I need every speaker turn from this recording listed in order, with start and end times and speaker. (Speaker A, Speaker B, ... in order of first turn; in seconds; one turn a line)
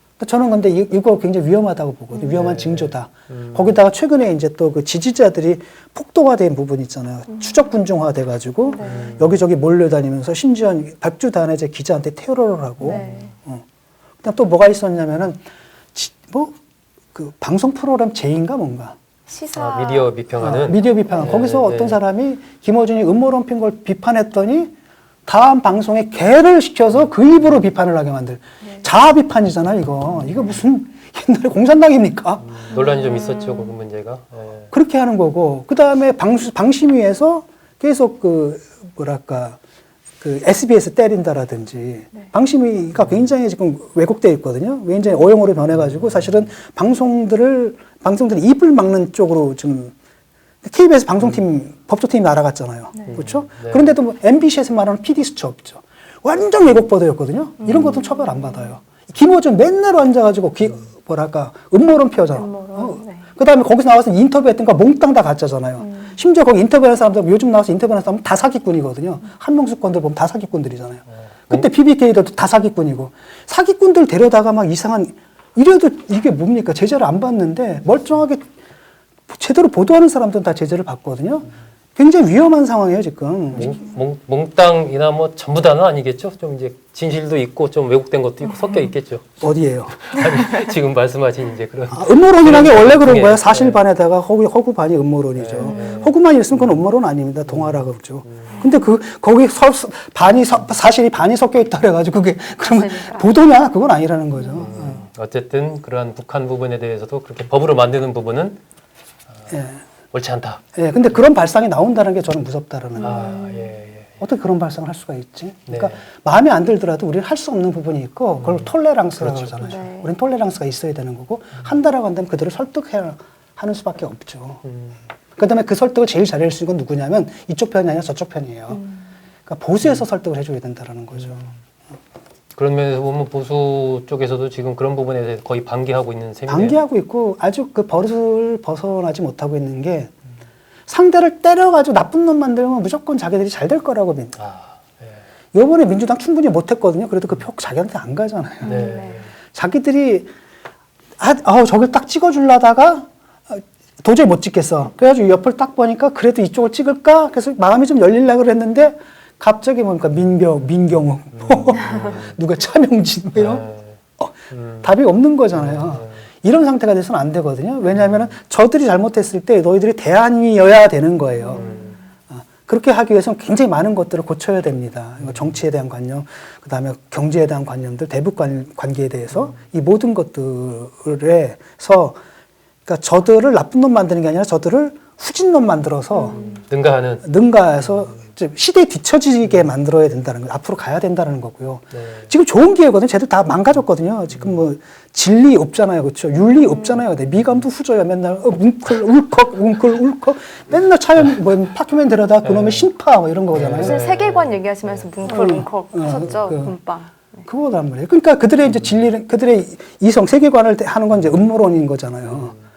Speaker A: 0.2-13.6
Speaker B: 2.3-3.8
Speaker C: 8.7-9.0
Speaker B: 8.8-9.4
Speaker C: 12.8-13.3
Speaker B: 12.9-13.2
Speaker A: 14.2-15.4
Speaker A: 15.9-16.5
Speaker A: 17.1-19.0
Speaker C: 19.3-20.1
Speaker B: 19.6-22.0
Speaker A: 20.4-24.7
Speaker A: 25.3-32.6
Speaker B: 32.4-34.7
Speaker A: 34.7-39.6
Speaker A: 40.2-49.9
Speaker A: 50.6-78.4
Speaker B: 53.1-53.9
Speaker C: 57.9-58.7
Speaker C: 62.4-63.3
Speaker C: 65.8-66.2
Speaker B: 71.2-71.7
Speaker A: 79.3-83.8
Speaker B: 83.5-89.3
Speaker A: 89.4-90.3
Speaker B: 90.0-93.8
Speaker A: 91.9-105.0
Speaker B: 95.4-96.8
Speaker C: 95.6-96.0
Speaker B: 97.5-98.7
Speaker C: 102.7-103.3
Speaker B: 104.5-108.6
Speaker A: 109.5-109.8
Speaker B: 110.1-110.6
Speaker A: 110.8-113.4
Speaker B: 113.0-114.1
Speaker C: 113.0-113.5
Speaker A: 114.2-124.6
Speaker B: 115.7-116.0
Speaker B: 118.4-119.8
Speaker C: 119.7-120.1
Speaker B: 124.7-125.0
Speaker A: 125.4-128.9
Speaker A: 129.5-131.5
Speaker B: 131.2-131.5
Speaker B: 132.6-136.8
Speaker A: 136.5-140.1
Speaker A: 140.9-144.4
Speaker B: 144.4-145.2
Speaker A: 145.5-148.9
Speaker B: 148.6-149.3
Speaker C: 148.8-149.2
Speaker A: 149.5-150.3
Speaker A: 151.2-163.7
Speaker B: 161.4-162.3
Speaker B: 163.4-164.0
Speaker A: 164.2-171.7
Speaker B: 164.5-164.8
Speaker B: 165.6-166.2
Speaker B: 171.6-172.0
Speaker A: 172.3-182.2
Speaker B: 175.2-175.6
Speaker A: 182.9-186.5
Speaker B: 186.3-187.2
Speaker A: 187.2-204.0
Speaker B: 191.9-192.3
Speaker B: 202.4-202.9
Speaker B: 203.5-205.2
Speaker C: 203.9-207.4
Speaker A: 205.2-206.8
Speaker A: 207.5-212.6